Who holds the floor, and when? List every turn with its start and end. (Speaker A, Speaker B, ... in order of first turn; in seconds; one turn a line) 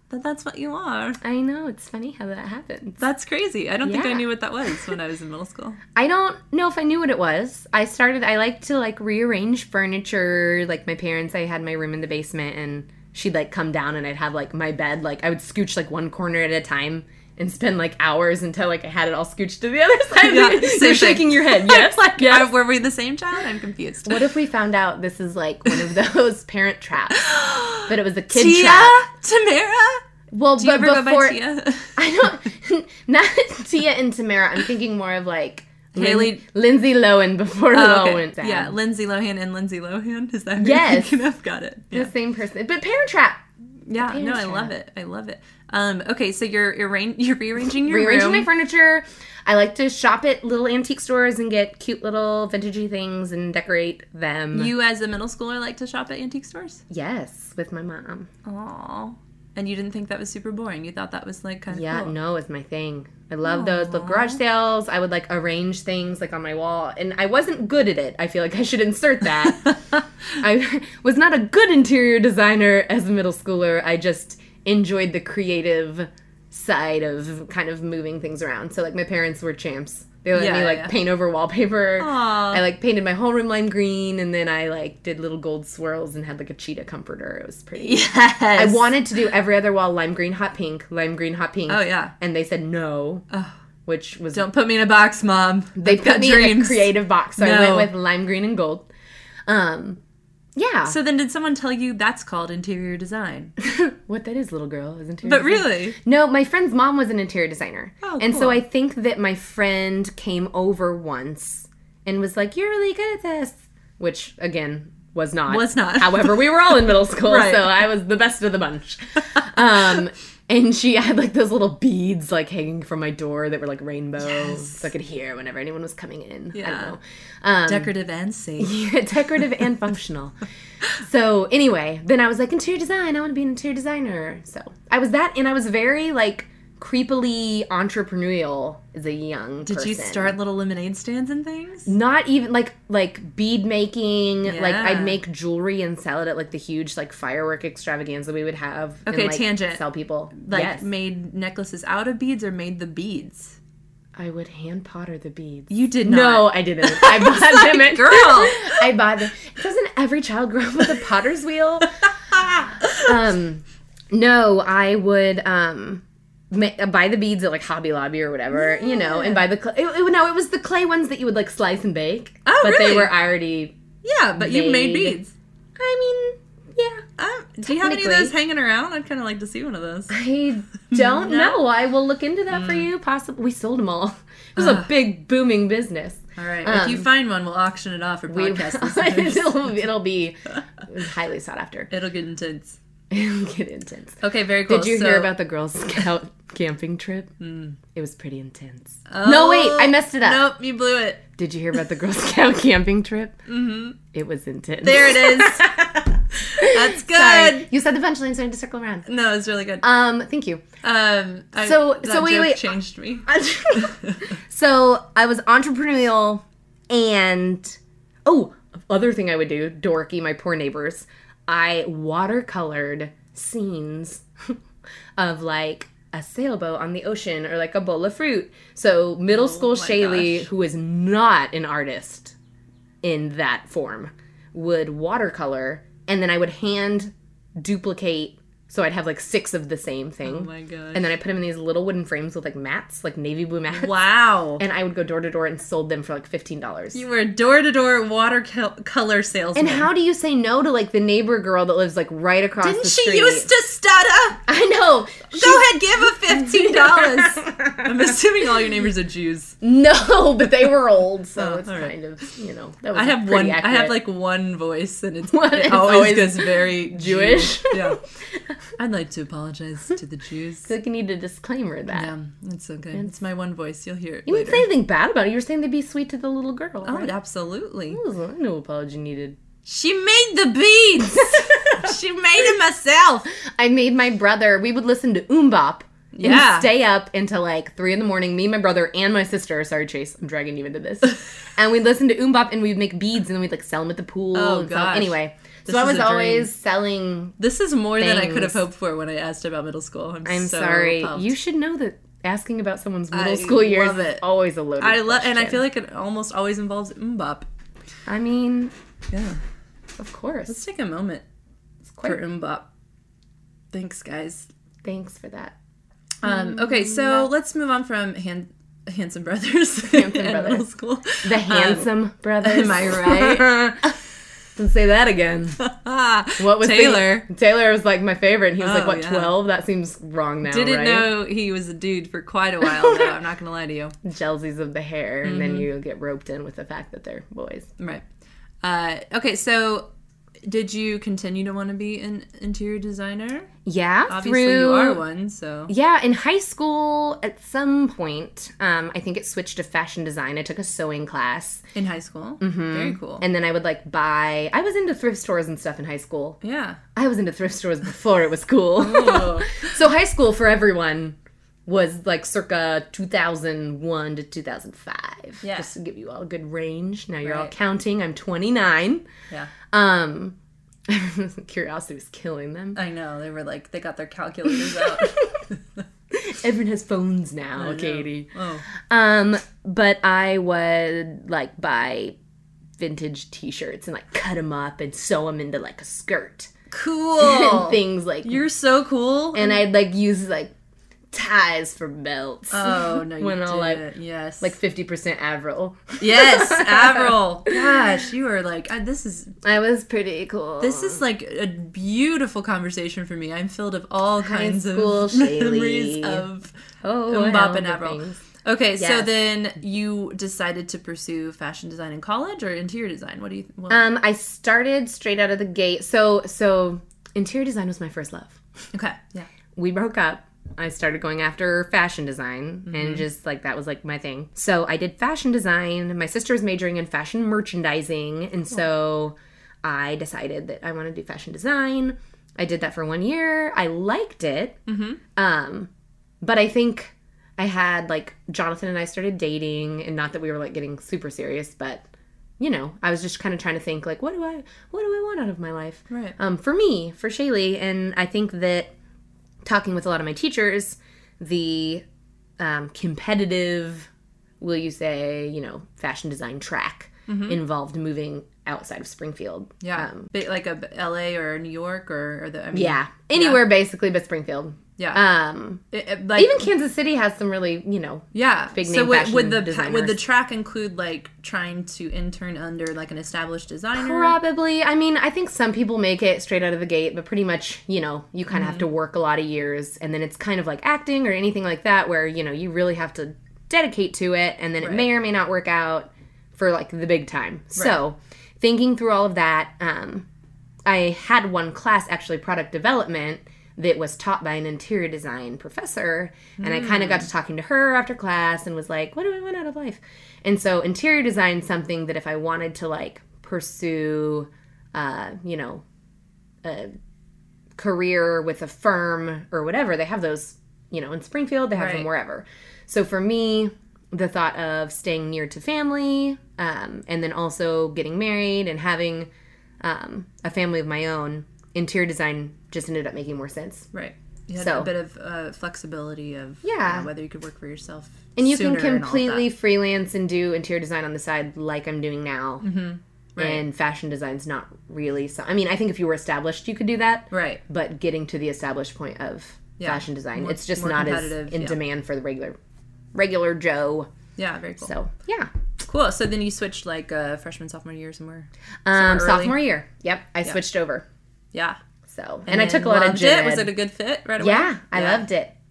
Speaker A: 0.1-1.2
Speaker B: 1.2-3.0
Speaker A: 3.0-5.8
Speaker B: 3.8-4.2
Speaker B: 6.0-22.5
Speaker A: 20.2-24.2
Speaker B: 24.0-27.2
Speaker A: 27.1-30.0
Speaker B: 27.8-29.0
Speaker B: 30.3-31.4
Speaker A: 30.6-32.0
Speaker B: 31.9-38.8
Speaker A: 35.9-36.4
Speaker A: 37.7-42.1
Speaker B: 40.6-41.2
Speaker B: 41.9-44.7
Speaker A: 43.9-48.5
Speaker B: 47.9-54.7
Speaker A: 54.5-56.8
Speaker B: 56.9-58.3
Speaker A: 58.4-62.1
Speaker B: 61.7-69.8
Speaker A: 63.4-64.4
Speaker A: 69.4-70.0
Speaker B: 70.4-93.2
Speaker A: 80.3-80.9
Speaker A: 82.0-82.6
Speaker A: 87.8-88.9
Speaker A: 91.7-92.1
Speaker A: 93.3-93.5
Speaker B: 93.8-94.5
Speaker A: 94.3-97.9
Speaker B: 95.8-98.9
Speaker B: 99.5-100.0
Speaker B: 100.5-101.0
Speaker A: 100.8-103.5
Speaker B: 103.6-127.9
Speaker A: 105.2-106.0
Speaker A: 108.0-108.6
Speaker A: 115.5-117.8
Speaker A: 119.2-119.9
Speaker A: 124.2-124.9
Speaker A: 126.5-127.0
Speaker A: 127.6-128.8
Speaker B: 128.6-130.4
Speaker B: 130.9-140.3
Speaker A: 139.6-141.9
Speaker B: 141.8-150.8
Speaker A: 144.4-145.2
Speaker A: 149.1-149.8
Speaker A: 150.3-153.6
Speaker B: 154.2-173.8
Speaker A: 155.7-158.8
Speaker A: 162.8-163.1
Speaker A: 168.5-169.5
Speaker A: 172.4-173.1
Speaker A: 174.0-175.3
Speaker B: 174.3-175.2
Speaker B: 175.8-177.1
Speaker A: 177.2-180.2
Speaker B: 177.6-178.3
Speaker B: 180.1-187.1
Speaker A: 180.9-181.6
Speaker A: 182.5-182.9
Speaker A: 184.6-184.9
Speaker A: 186.4-189.7
Speaker B: 188.3-191.9
Speaker A: 191.9-192.8
Speaker B: 193.1-197.3
Speaker A: 194.2-195.3
Speaker A: 197.4-197.8
Speaker B: 197.9-200.5
Speaker A: 199.1-201.2
Speaker B: 201.3-203.4
Speaker A: 203.5-204.0
Speaker B: 204.1-209.1
Speaker A: 204.8-205.7
Speaker A: 206.5-207.7
Speaker A: 209.1-209.8
Speaker B: 209.8-210.6
Speaker A: 210.8-214.2
Speaker B: 211.6-212.7
Speaker B: 213.2-224.6
Speaker B: 225.2-232.3
Speaker A: 229.3-230.5
Speaker B: 233.0-243.9
Speaker A: 240.2-241.1
Speaker A: 243.7-244.6
Speaker B: 244.6-247.0
Speaker A: 246.9-249.9
Speaker B: 249.5-253.5
Speaker A: 252.6-254.4
Speaker B: 254.5-257.9
Speaker A: 255.3-259.6
Speaker B: 259.6-264.0
Speaker A: 261.4-261.9
Speaker A: 262.9-268.0
Speaker B: 265.3-268.0
Speaker A: 268.8-270.7
Speaker B: 270.6-272.1
Speaker A: 271.9-274.6
Speaker B: 274.3-277.1
Speaker A: 276.8-278.0
Speaker B: 277.9-279.4
Speaker A: 279.6-283.3
Speaker B: 281.1-281.9
Speaker B: 283.6-297.4
Speaker A: 286.1-286.7
Speaker A: 294.3-296.5
Speaker A: 297.4-301.3
Speaker B: 297.9-298.6
Speaker B: 300.2-305.6
Speaker A: 303.1-304.2
Speaker A: 304.8-307.5
Speaker B: 308.1-308.7
Speaker A: 309.1-309.4
Speaker B: 310.0-310.6
Speaker A: 310.5-311.2
Speaker B: 311.9-312.2
Speaker A: 312.0-312.7
Speaker A: 313.7-314.5
Speaker B: 314.8-315.5
Speaker A: 316.2-324.0
Speaker B: 316.2-317.3
Speaker B: 319.8-320.7
Speaker B: 321.2-323.8
Speaker B: 324.6-325.6
Speaker A: 325.6-327.2
Speaker B: 326.4-331.1
Speaker A: 328.6-329.3
Speaker A: 330.4-333.9
Speaker B: 332.7-333.1
Speaker B: 334.0-337.7
Speaker A: 335.2-335.7
Speaker A: 337.8-338.0
Speaker A: 338.6-339.9
Speaker A: 340.4-343.5
Speaker B: 343.6-345.0
Speaker A: 344.1-345.7
Speaker B: 345.7-351.6
Speaker A: 351.7-353.2
Speaker B: 352.4-356.4
Speaker A: 356.4-356.8
Speaker B: 356.9-369.1
Speaker A: 358.8-359.7
Speaker A: 365.4-365.7
Speaker A: 367.2-367.5
Speaker B: 369.7-370.4
Speaker B: 370.9-372.8
Speaker A: 372.7-375.8
Speaker B: 374.6-375.4
Speaker B: 376.1-382.1
Speaker A: 377.6-378.7
Speaker B: 382.8-386.5
Speaker A: 386.7-389.6
Speaker B: 387.2-388.4
Speaker B: 389.3-390.5
Speaker B: 391.1-393.8
Speaker A: 392.5-394.5
Speaker B: 394.4-397.6
Speaker A: 396.0-399.4
Speaker B: 399.4-401.0
Speaker A: 400.6-406.5
Speaker B: 404.2-406.2
Speaker B: 406.8-408.2
Speaker A: 407.1-413.9
Speaker B: 408.8-409.1
Speaker B: 413.7-418.4
Speaker A: 418.7-419.3
Speaker B: 419.6-434.6
Speaker A: 422.7-423.0
Speaker A: 434.7-435.0
Speaker B: 435.1-435.7
Speaker B: 436.2-441.9
Speaker B: 442.4-448.7
Speaker A: 445.9-446.1
Speaker B: 449.4-451.8
Speaker B: 452.4-453.9
Speaker B: 454.4-460.1
Speaker A: 457.1-457.4
Speaker A: 459.6-463.5
Speaker B: 462.5-465.6
Speaker A: 464.8-465.0
Speaker A: 465.7-466.5
Speaker B: 466.1-470.0
Speaker A: 468.1-474.1
Speaker B: 473.8-490.1
Speaker A: 478.3-478.7
Speaker A: 484.6-484.9
Speaker B: 490.6-505.6
Speaker A: 496.4-497.1
Speaker B: 506.4-506.7
Speaker B: 507.6-519.1
Speaker A: 511.6-511.9
Speaker B: 519.6-523.7
Speaker A: 523.7-529.3
Speaker B: 524.4-524.7
Speaker B: 526.4-526.9
Speaker B: 528.1-532.5
Speaker A: 532.4-533.4
Speaker B: 533.2-542.4
Speaker A: 537.1-537.4
Speaker A: 539.6-541.6
Speaker B: 542.9-543.9
Speaker A: 544.1-544.7
Speaker B: 544.6-545.3
Speaker A: 545.6-549.4
Speaker B: 548.6-550.9
Speaker A: 551.3-551.6
Speaker B: 551.9-553.5
Speaker A: 552.3-555.1
Speaker B: 554.2-555.3